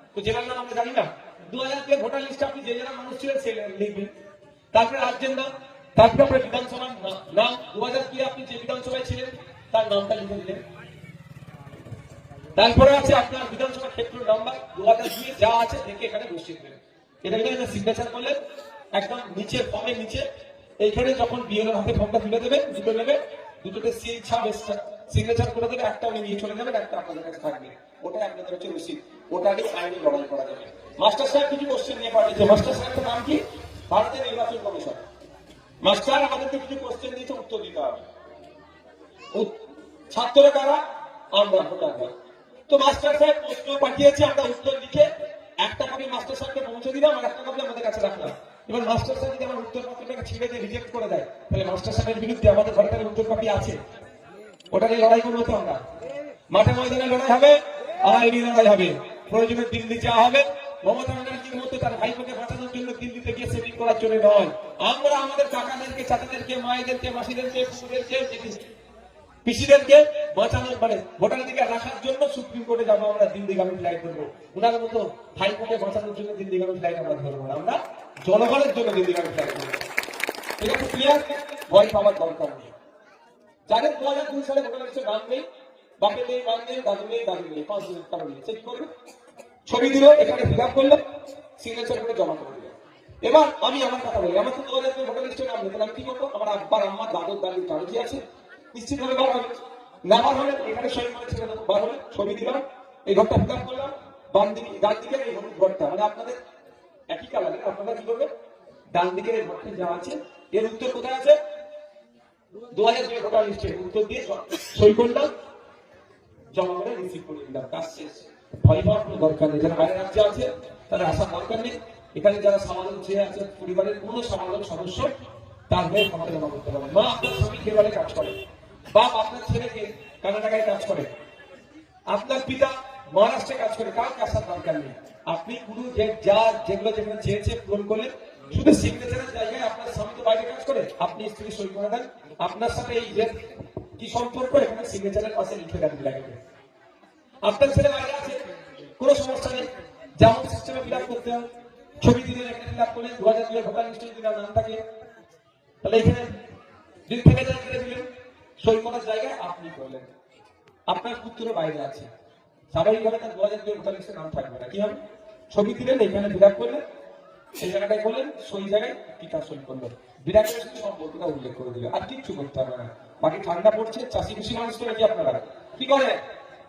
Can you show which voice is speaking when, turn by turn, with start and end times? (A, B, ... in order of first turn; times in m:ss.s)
0:00.1-0:04.1 A
0:04.7-0:10.6 A
0:12.6-0:18.4 A
0:18.9-0:20.2 A
0:20.8-0:35.0 A
0:35.8-0:38.1 A
0:40.1-0:40.8 A
0:41.3-0:42.1 A
0:42.7-0:45.1 A
0:45.6-0:53.8 A
0:54.7-0:55.8 A
0:56.5-1:08.6 A
1:09.4-1:19.8 A
1:20.6-1:22.7 A
1:23.7-1:25.4 A
1:26.0-1:28.9 A
1:29.7-1:31.0 A
1:31.6-1:38.2 A
1:38.7-1:46.4 A
1:47.1-1:48.3 A
1:48.9-1:51.4 A
1:52.7-1:55.3 A
1:56.5-2:05.1 A
2:05.7-2:08.4 A
2:08.9-2:11.1 A
2:12.1-2:23.4 A
2:24.0-2:26.4 A
2:27.4-2:28.4 A
2:29.0-2:29.7 A
2:30.2-2:31.5 A
2:32.0-2:34.8 A
2:35.8-2:36.4 A
2:37.1-2:38.0 A
2:38.6-2:40.1 A
2:40.9-2:42.1 A
2:42.7-2:45.0 A
2:45.5-2:46.8 A
2:47.6-2:56.2 A